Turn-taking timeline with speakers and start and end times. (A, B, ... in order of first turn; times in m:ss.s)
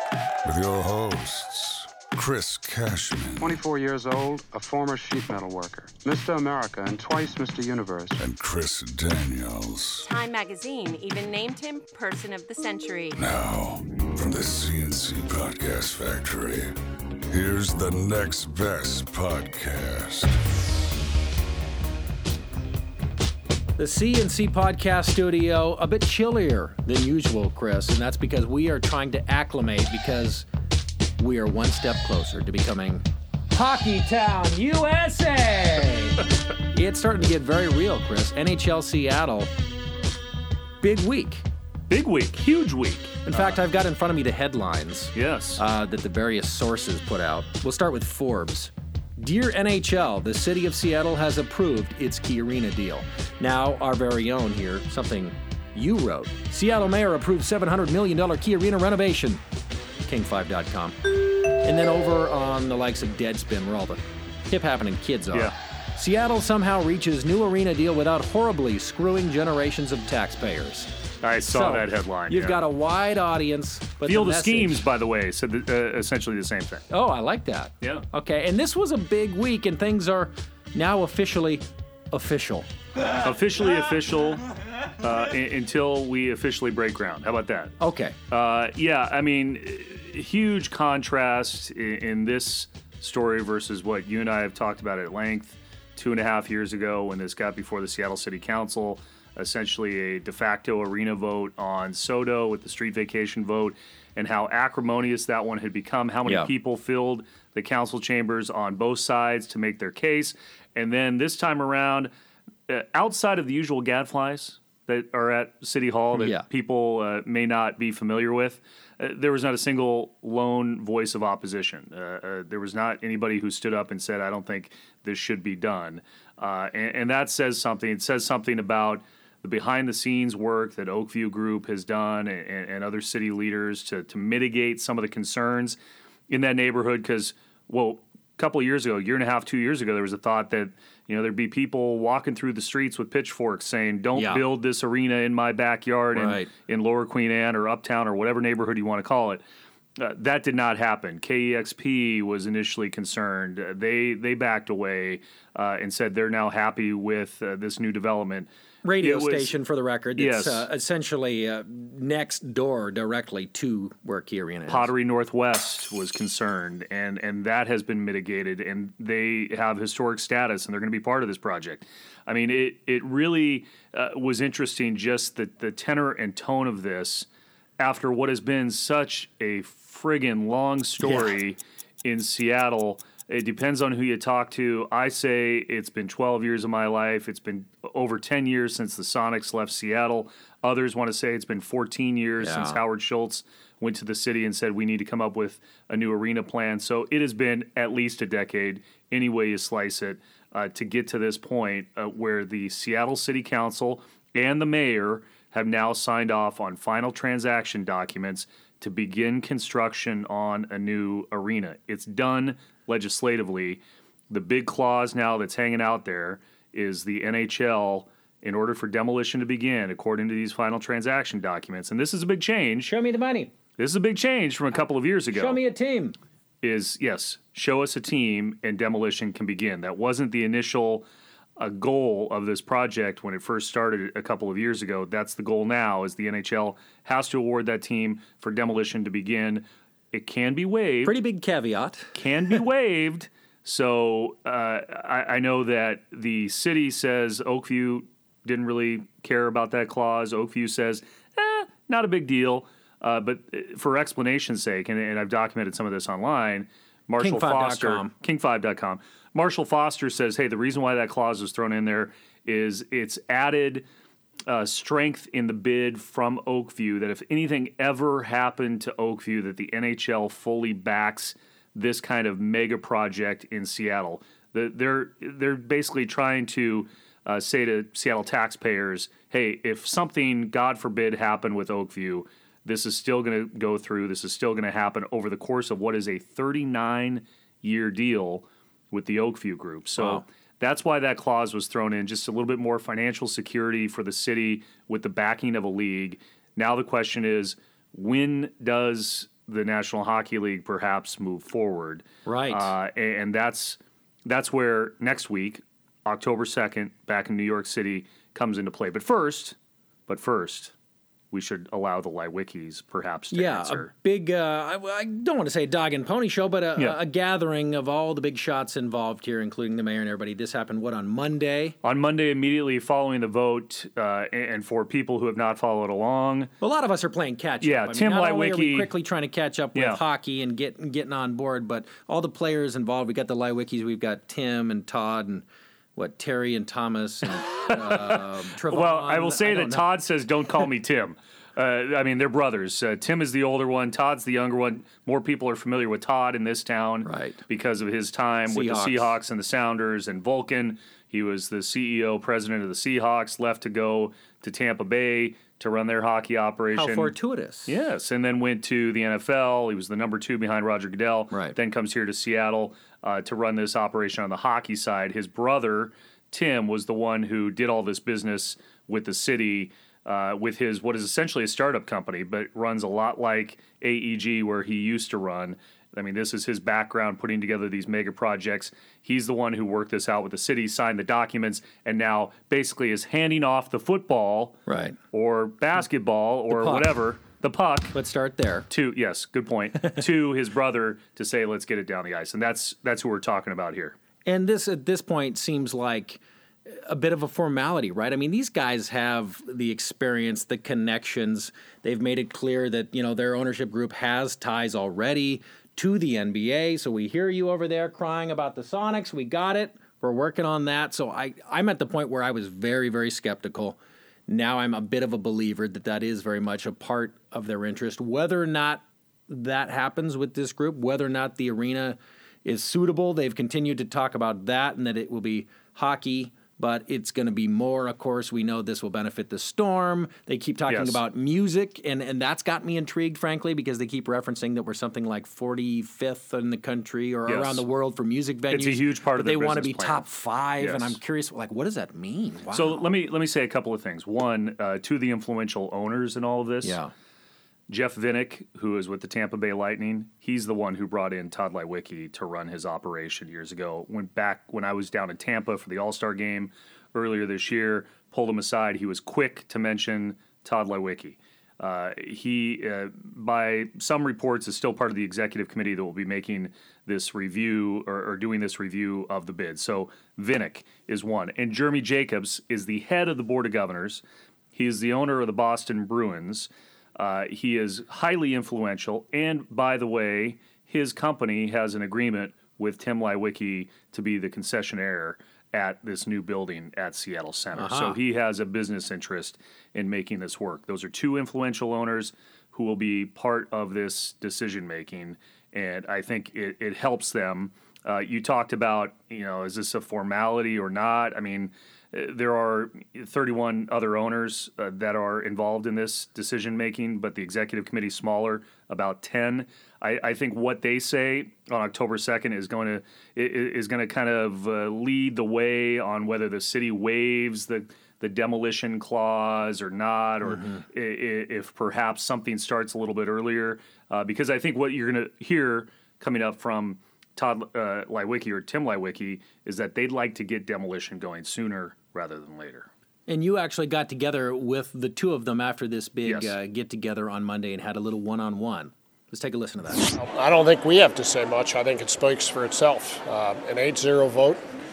0:00.4-0:03.6 A
0:03.4-0:08.2 B
0:08.2-0:10.1 A
0:10.0-0:13.2 C
0:13.2-0:16.8 A
0:17.3-0:20.4 A
0:23.8-0:30.5 D
0:31.2-0:39.5 D
0:40.8-0:41.4 D
0:41.9-0:43.6 E
0:43.3-0:59.4 D
0:45.1-0:45.6 E
1:00.0-1:10.9 D
1:11.2-1:12.6 E
1:11.5-1:14.8 D
1:14.0-1:16.9 E
1:16.9-1:22.7 D
1:23.2-1:24.4 E
1:25.0-1:27.7 E
1:27.8-1:28.2 D
1:28.3-1:52.1 E
1:52.7-2:15.8 E
1:56.1-1:56.4 D
2:16.3-2:29.4 E
2:24.2-2:24.4 D
2:26.2-2:26.5 D
2:30.0-2:38.5 E
2:38.8-2:44.9 D
2:39.0-2:39.5 E
2:40.2-2:40.7 E
2:44.7-2:57.3 E
2:57.8-3:42.9 E
3:01.0-3:01.4 D
3:12.4-3:12.8 D
3:42.8-3:43.5 D
3:43.8-3:45.6 E
3:45.3-3:46.2 D
3:46.6-3:51.1 E
3:51.6-4:01.2 E
4:01.0-4:02.6 D
4:02.2-4:23.8 E
4:17.2-4:18.1 D
4:24.5-5:09.6 E
4:50.0-4:50.2 D
5:02.2-5:02.7 D
5:10.1-5:10.7 E
5:11.3-5:13.9 E
5:13.3-5:21.8 D
5:21.8-5:26.5 E
5:26.6-5:39.9 D
5:27.6-5:28.9 E
5:29.8-5:30.0 E
5:37.6-5:57.1 E
5:47.0-5:47.4 D
5:48.5-5:49.1 D
5:56.7-5:57.8 D
5:57.7-6:24.6 E
6:01.3-6:01.6 D
6:24.7-6:25.0 D
6:25.1-6:28.0 E
6:26.5-6:26.9 D
6:27.9-6:28.7 D
6:28.7-6:34.0 E
6:34.2-7:22.8 D
7:10.7-7:11.0 E
7:17.3-7:17.6 E
7:18.5-7:20.1 E
7:20.6-7:21.0 E
7:22.5-7:26.8 E
7:26.6-7:26.9 D
7:27.7-7:54.0 E
7:54.5-8:52.7 E
8:07.6-8:08.0 D
8:40.2-8:40.7 D
8:53.1-8:59.9 D
8:56.0-8:56.4 E
8:59.9-9:04.4 F